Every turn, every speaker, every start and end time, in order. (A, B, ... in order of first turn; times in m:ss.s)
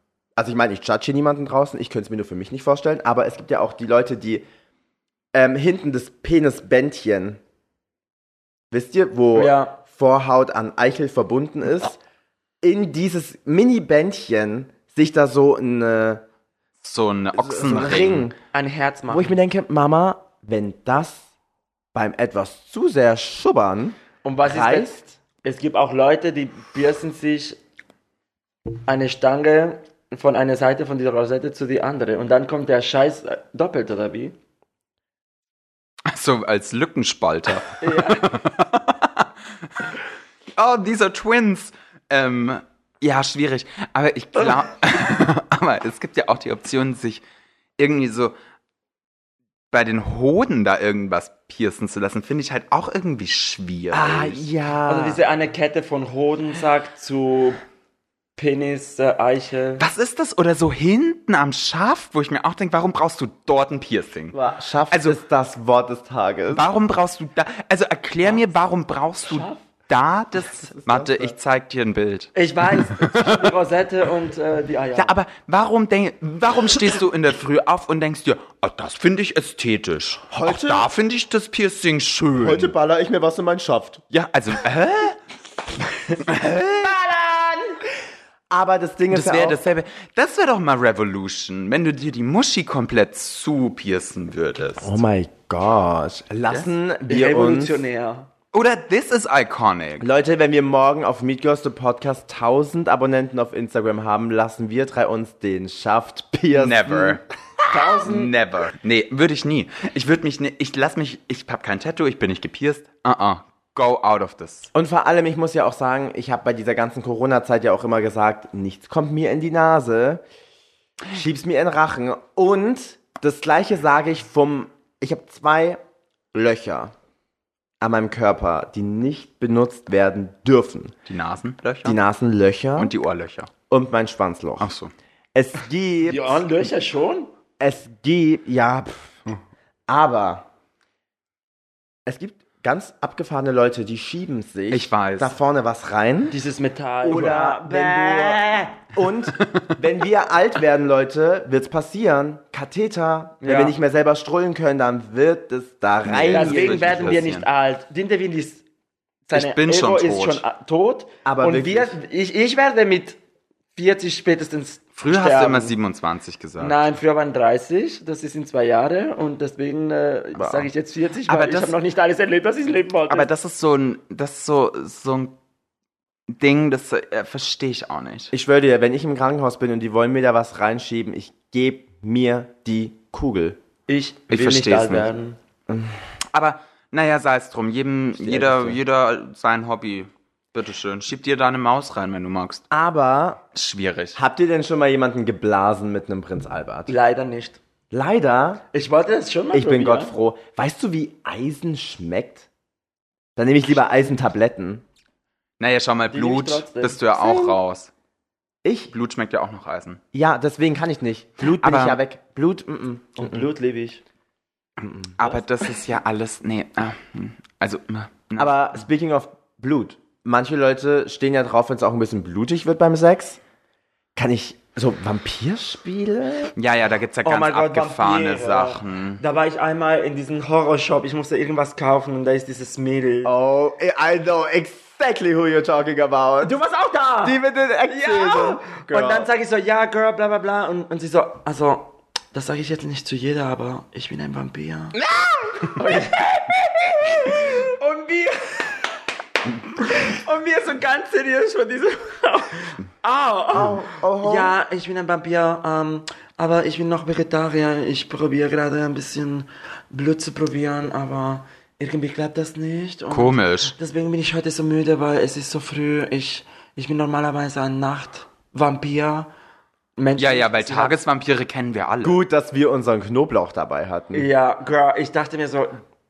0:00.4-0:04.5 A
0:05.3-0:07.4 A
0:08.7-0:12.0 A
0:09.3-0:09.8 B
0:12.6-0:16.2 A
0:16.8-0:18.3 C
0:17.3-0:18.4 A
0:18.5-0:19.4 B
0:19.1-0:21.3 A
0:21.9-0:25.2 A
0:24.2-0:27.6 B
0:28.8-0:34.4 B
0:36.1-0:40.0 C
0:37.8-0:38.3 B
0:40.6-0:47.2 C
0:47.8-0:48.4 C
0:49.7-0:54.5 C
0:53.9-0:55.2 A
0:54.9-0:57.6 B
0:58.4-0:59.8 B
0:59.8-1:04.4 C
1:04.3-1:06.7 A
1:04.9-1:05.2 C
1:06.5-1:13.5 C
1:09.3-1:09.6 B
1:10.7-1:11.4 A
1:12.4-1:15.1 B
1:15.0-1:22.7 C
1:20.3-1:20.9 A
1:22.4-1:24.0 A
1:24.1-1:25.2 C
1:26.0-1:27.0 C
1:27.0-1:27.6 A
1:28.5-1:29.6 A
1:29.1-1:35.0 C
1:34.8-1:37.8 A
1:37.1-1:38.3 B
1:38.5-1:40.1 C
1:40.0-1:47.2 A
1:46.5-1:47.2 C
1:47.7-1:48.3 B
1:47.9-1:54.7 C
1:54.7-2:00.2 A
2:01.1-2:05.8 A
2:06.3-2:06.9 A
2:07.8-2:11.0 A
2:11.1-2:12.0 C
2:11.8-2:12.9 A
2:12.8-2:13.5 C
2:13.7-2:14.7 A
2:14.6-2:14.9 C
2:15.4-2:16.5 A
2:16.0-2:17.3 B
2:17.6-2:19.2 A
2:19.9-2:20.5 A
2:22.1-2:26.4 A
2:24.7-2:25.4 C
2:26.3-2:28.8 B
2:27.0-2:37.2 A
2:33.4-2:33.8 B
2:36.0-2:37.5 C
2:36.3-2:38.6 B
2:39.3-2:43.2 B
2:39.3-2:40.4 C
2:41.2-2:42.0 A
2:43.8-2:45.7 B
2:45.0-2:46.8 C
2:46.6-2:53.3 B
2:50.4-2:50.7 A
2:51.3-2:51.8 C
2:53.1-2:55.4 C
2:56.3-2:58.3 C
2:58.3-3:03.6 A
3:03.9-3:05.4 B
3:04.3-3:05.1 C
3:06.3-3:12.7 C
3:08.2-3:08.8 A
3:12.7-3:13.4 A
3:13.5-3:14.2 C
3:14.2-3:16.9 A
3:16.9-3:17.6 B
3:17.9-3:18.6 A
3:18.7-3:20.2 B
3:19.5-3:22.5 A
3:23.4-3:24.8 A
3:25.6-3:27.9 C
3:26.1-3:27.0 B
3:27.2-3:27.6 A
3:28.6-3:28.9 A
3:28.9-3:30.0 C
3:30.1-3:33.5 A
3:31.6-3:32.0 C
3:33.2-3:34.0 B
3:34.8-3:35.1 A
3:35.2-3:38.5 C
3:38.4-3:43.4 A
3:44.2-3:46.5 A
3:46.6-3:49.2 C
3:47.2-3:53.3 B
3:53.2-3:56.5 A
3:56.4-3:57.4 B
3:57.2-3:59.3 A
3:57.9-4:05.0 B
4:05.2-4:05.6 A
4:05.6-4:08.8 B
4:09.8-4:29.3 B
4:13.5-4:14.5 A
4:23.1-4:23.7 C
4:30.0-4:31.0 B
4:30.2-4:32.2 C
4:32.0-4:34.3 A
4:34.1-4:35.8 B